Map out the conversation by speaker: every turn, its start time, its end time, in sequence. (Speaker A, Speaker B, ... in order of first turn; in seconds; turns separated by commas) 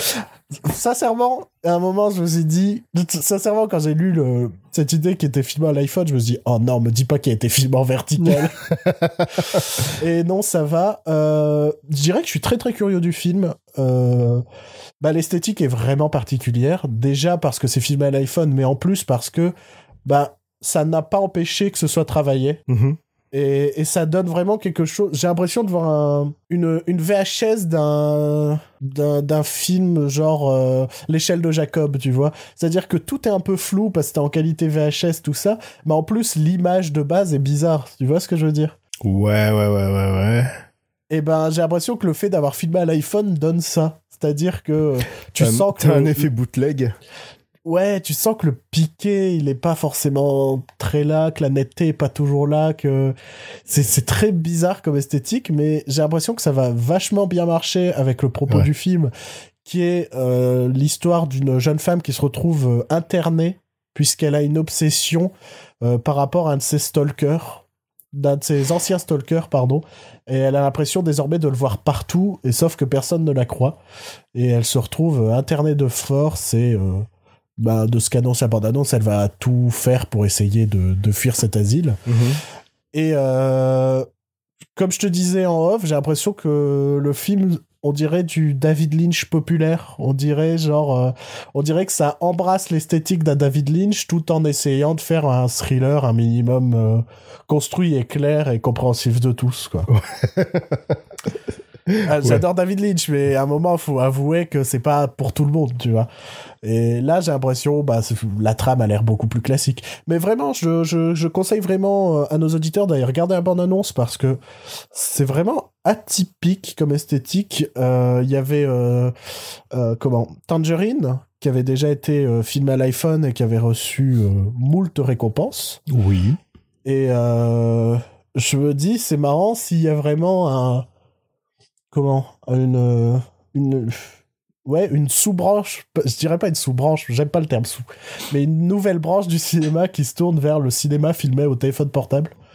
Speaker A: 0.6-8.6, Speaker B: 8.7-9.7, Speaker A: 9.8-14.4, Speaker A: 15.0-19.5, Speaker A: 20.1-22.6, Speaker B: 22.7-23.0, Speaker A: 23.3-38.8, Speaker B: 39.0-40.5, Speaker A: 41.1-46.3, Speaker B: 45.4-46.9, Speaker A: 47.6-53.1, Speaker A: 53.7-59.1, Speaker A: 59.6-65.3, Speaker A: 65.8-73.8, Speaker A: 74.3-77.1, Speaker A: 77.6-82.0, Speaker B: 82.1-82.4, Speaker A: 82.9-84.1, Speaker A: 84.8-99.9, Speaker B: 99.9-101.0, Speaker B: 101.9-102.4, Speaker A: 102.0-106.1, Speaker A: 106.6-114.4, Speaker A: 114.9-119.1, Speaker A: 119.7-125.8, Speaker B: 125.9-126.4, Speaker A: 126.8-130.9, Speaker A: 131.9-142.3